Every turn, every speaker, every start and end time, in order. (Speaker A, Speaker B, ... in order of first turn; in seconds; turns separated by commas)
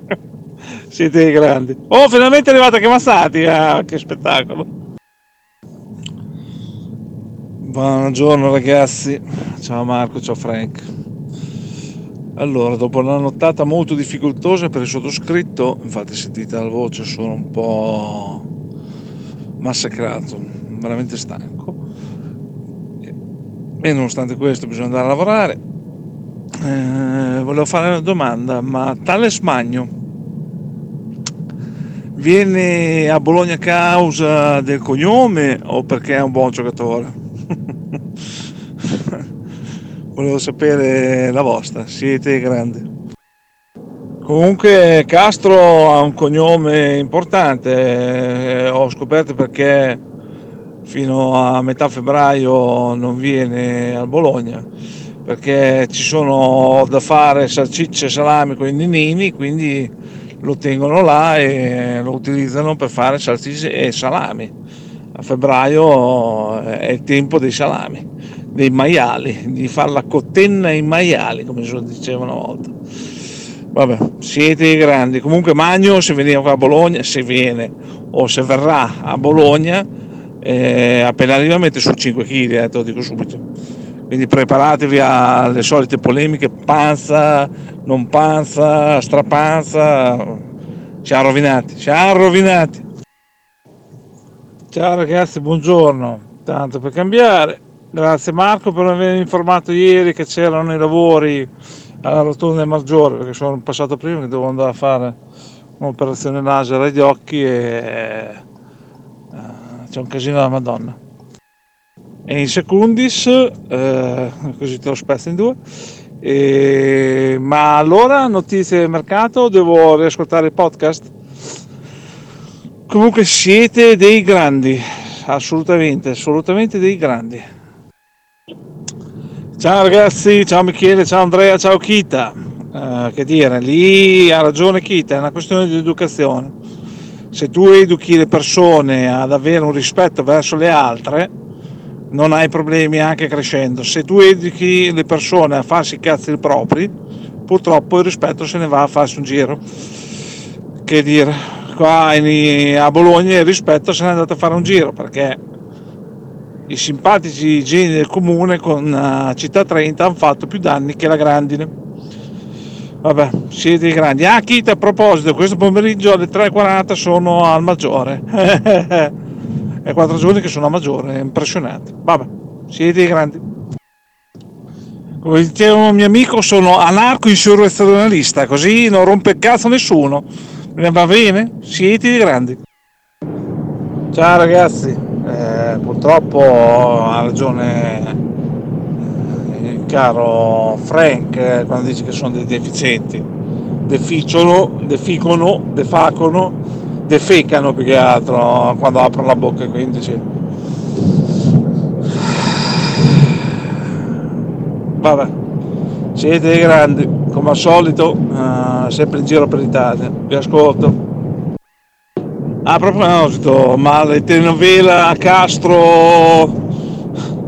Speaker A: 0.9-4.7, Speaker A: 7.6-10.8, Speaker A: 12.4-18.4, Speaker A: 19.6-21.8, Speaker A: 23.8-25.6, Speaker A: 26.6-29.9, Speaker A: 32.1-37.1, Speaker A: 38.9-39.2, Speaker A: 40.1-42.8, Speaker A: 44.2-50.0, Speaker A: 50.9-54.7, Speaker A: 55.2-59.9, Speaker A: 60.4-64.5, Speaker A: 65.1-72.7, Speaker A: 73.7-79.9, Speaker A: 80.4-83.4, Speaker A: 84.1-90.4, Speaker A: 91.0-92.8, Speaker A: 94.7-101.5, Speaker A: 102.0-105.2, Speaker A: 105.8-108.4, Speaker A: 109.3-111.0, Speaker A: 112.3-115.6, Speaker A: 116.2-121.1, Speaker A: 122.9-127.4, Speaker A: 129.6-136.5, Speaker A: 137.3-141.3, Speaker A: 142.1-146.9, Speaker A: 147.5-149.6, Speaker A: 150.8-155.4, Speaker A: 156.7-161.7, Speaker A: 163.0-169.1, Speaker A: 169.8-173.4, Speaker A: 175.2-180.2, Speaker A: 180.8-182.6, Speaker A: 184.1-188.2, Speaker A: 189.1-193.2, Speaker A: 193.8-200.2, Speaker A: 202.2-203.4, Speaker A: 205.0-205.3, Speaker A: 206.2-210.9, Speaker A: 212.6-216.6